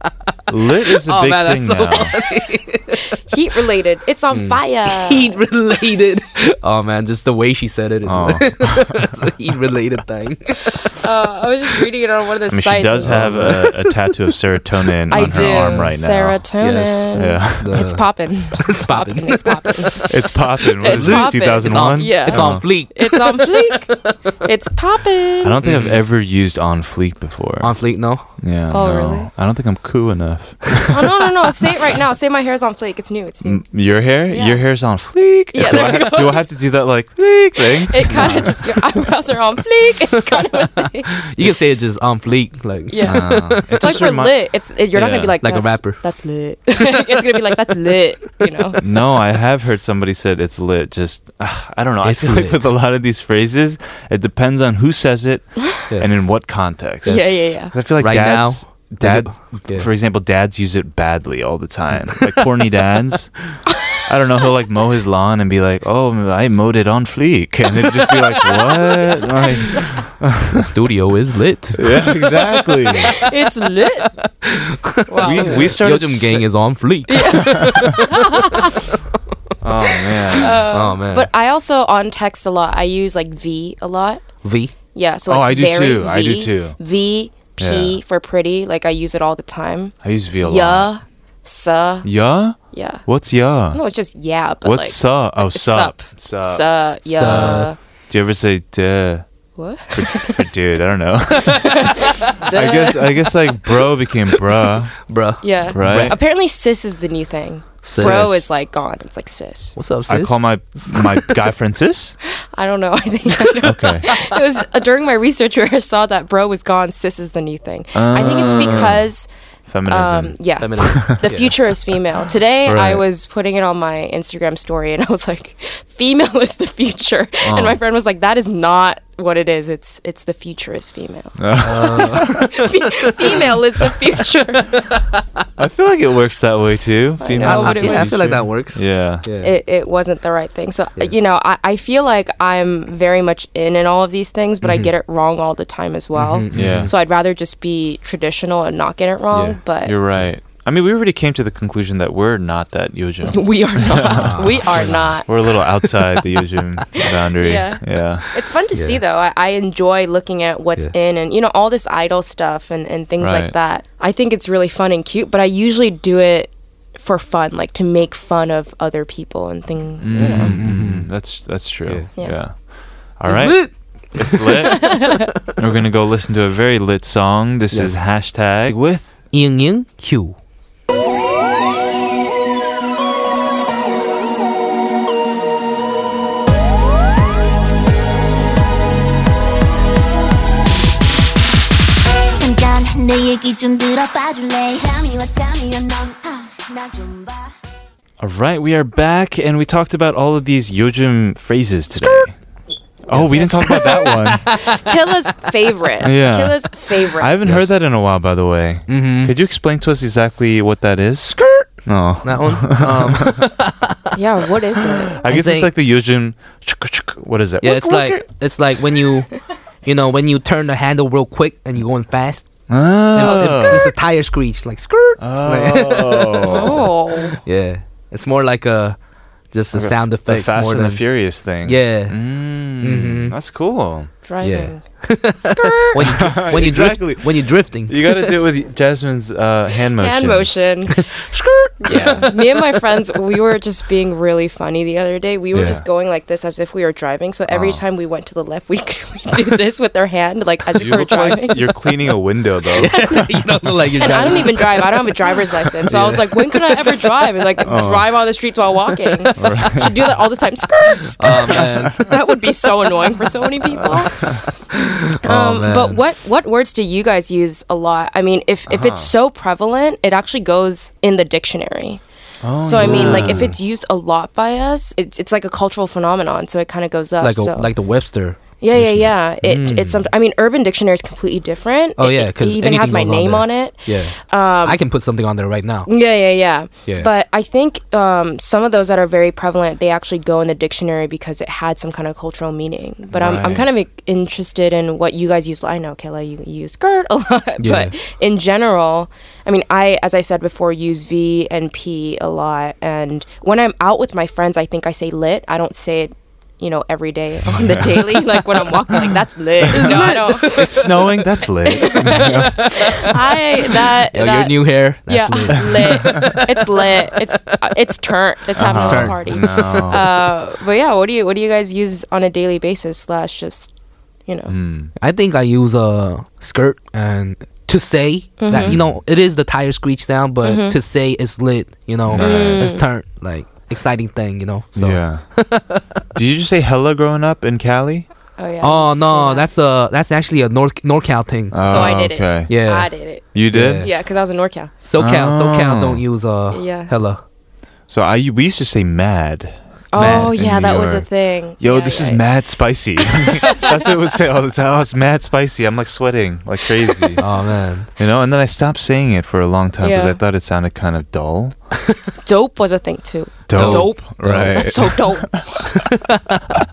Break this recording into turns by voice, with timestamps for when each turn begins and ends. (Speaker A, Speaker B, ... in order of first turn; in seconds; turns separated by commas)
Speaker A: 0.5-2.1, Speaker B: 0.9-3.0, Speaker C: 3.1-5.3, Speaker B: 4.3-10.9, Speaker A: 8.0-9.1, Speaker C: 11.0-13.4, Speaker A: 12.5-16.5, Speaker B: 13.0-14.2, Speaker B: 15.1-15.9, Speaker C: 15.1-25.6, Speaker B: 16.6-20.1, Speaker A: 17.1-17.9, Speaker A: 20.1-22.7, Speaker B: 20.6-24.3, Speaker A: 25.4-31.1, Speaker B: 25.6-26.0, Speaker B: 27.6-28.3, Speaker C: 28.7-29.3, Speaker C: 30.9-33.6, Speaker A: 33.4-38.6, Speaker C: 34.3-36.5, Speaker B: 35.7-36.1, Speaker C: 37.6-41.1, Speaker B: 38.1-38.5, Speaker B: 40.9-44.0, Speaker C: 42.9-48.8, Speaker A: 43.0-44.4, Speaker A: 44.9-45.4, Speaker B: 45.4-46.0, Speaker A: 48.8-70.7, Speaker B: 52.0-52.7, Speaker B: 55.9-59.9, Speaker C: 57.1-57.8, Speaker B: 70.7-72.4, Speaker A: 71.8-73.2, Speaker C: 73.1-74.2, Speaker B: 74.4-78.2, Speaker C: 75.1-75.8, Speaker A: 75.2-76.5, Speaker C: 77.1-78.9, Speaker A: 79.6-80.7, Speaker C: 80.1-84.3, Speaker B: 80.7-81.3, Speaker B: 84.4-84.7, Speaker C: 84.9-92.1, Speaker A: 85.3-86.8, Speaker A: 87.6-88.0, Speaker A: 90.0-90.9, Speaker A: 92.0-93.8, Speaker C: 92.7-93.0, Speaker C: 93.7-97.8, Speaker A: 94.6-99.3, Speaker B: 97.1-97.7, Speaker C: 99.6-100.5, Speaker A: 99.9-101.9, Speaker C: 101.5-103.4, Speaker A: 102.5-105.0, Speaker B: 105.1-106.2, Speaker C: 105.4-109.8, Speaker A: 105.7-106.2, Speaker B: 107.8-108.3, Speaker A: 108.0-108.5, Speaker B: 109.8-111.4, Speaker A: 110.1-112.2, Speaker C: 112.5-119.3, Speaker A: 113.6-114.1, Speaker A: 117.9-119.0, Speaker B: 118.2-118.9, Speaker A: 119.7-121.2, Speaker C: 119.9-134.7, Speaker B: 120.6-121.5, Speaker A: 122.7-123.0, Speaker A: 127.4-127.8, Speaker A: 131.4-132.4, Speaker B: 131.6-132.5, Speaker B: 134.5-135.2, Speaker A: 135.6-139.3, Speaker C: 137.2-138.4, Speaker B: 137.4-139.6, Speaker C: 139.4-150.0, Speaker B: 144.6-144.9, Speaker B: 146.1-146.9, Speaker A: 146.5-146.9, Speaker B: 149.3-149.6, Speaker A: 149.8-158.3, Speaker C: 153.2-155.6, Speaker B: 154.1-155.2, Speaker C: 157.0-170.7, Speaker B: 158.7-159.0, Speaker A: 163.2-163.6, Speaker A: 170.0-179.2, Speaker B: 170.1-171.1, Speaker B: 173.2-175.2, Speaker B: 177.7-178.1, Speaker B: 179.3-180.4, Speaker D: 192.4-197.5, Speaker A: 198.2-202.3, Speaker B: 201.9-202.3, Speaker A: 203.1-204.5, Speaker B: 203.1-204.9, Speaker C: 203.3-207.4, Speaker A: 206.0-213.5, Speaker B: 207.4-207.8, Speaker B: 208.9-209.3, Speaker B: 211.3-211.7, Speaker B: 212.2-214.1, Speaker C: 214.1-215.2, Speaker A: 215.2-218.2, Speaker B: 215.2-215.7, Speaker B: 217.6-219.3, Speaker B: 219.8-226.8, Speaker A: 222.7-223.9, Speaker C: 223.2-223.9, Speaker A: 225.2-226.9, Speaker C: 226.4-227.4, Speaker B: 227.4-229.0, Speaker B: 229.5-231.0, Speaker A: 229.7-234.1, Speaker B: 231.6-232.2, Speaker B: 232.7-233.3, Speaker C: 234.2-236.3, Speaker B: 234.4-238.4, Speaker A: 236.0-240.7, Speaker C: 240.0-241.2, Speaker B: 240.9-242.8, Speaker C: 241.8-251.8, Speaker A: 241.9-242.3, Speaker A: 245.5-245.8, Speaker A: 247.5-247.8, Speaker A: 250.7-253.2, Speaker B: 252.8-255.4, Speaker C: 253.9-264.4, Speaker B: 255.9-257.8, Speaker A: 257.7-258.1, Speaker B: 259.0-259.7, Speaker A: 259.4-260.1, Speaker B: 261.2-262.1, Speaker A: 261.3-262.0, Speaker A: 263.8-264.4, Speaker B: 264.1-266.0, Speaker C: 265.2-272.0, Speaker A: 268.7-269.1, Speaker A: 272.4-273.6, Speaker C: 272.6-277.7, Speaker B: 272.7-273.6, Speaker B: 277.2-280.1, Speaker C: 278.6-284.8, Speaker A: 278.8-279.1, Speaker B: 282.0-285.9, Speaker C: 285.9-323.7, Speaker A: 293.1-293.7, Speaker B: 297.6-297.9, Speaker A: 307.4-308.1, Speaker A: 309.7-313.1, Speaker B: 309.7-310.9, Speaker B: 311.9-313.1, Speaker B: 314.1-317.2, Speaker A: 318.6-320.2, Speaker B: 318.6-319.9, Speaker C: 324.3-324.5, Speaker A: 324.5-324.9, Speaker B: 325.0-336.0, Speaker C: 328.4-328.8, Speaker A: 328.5-329.0, Speaker C: 330.4-330.8, Speaker A: 332.1-332.7, Speaker C: 332.2-332.9, Speaker A: 334.8-335.3, Speaker A: 336.1-338.1, Speaker C: 338.4-339.5, Speaker B: 338.6-343.9, Speaker A: 341.5-342.5, Speaker C: 341.6-344.7, Speaker A: 343.3-343.9, Speaker B: 344.9-347.2, Speaker A: 345.0-346.0, Speaker C: 346.5-346.9, Speaker A: 347.9-351.1, Speaker C: 349.9-352.3, Speaker B: 350.0-350.3, Speaker A: 351.6-357.2, Speaker C: 353.1-353.8, Speaker B: 357.2-357.9, Speaker A: 358.0-361.6, Speaker C: 359.8-360.2, Speaker C: 362.2-365.8, Speaker A: 363.5-365.4, Speaker B: 363.5-364.7, Speaker B: 365.9-366.4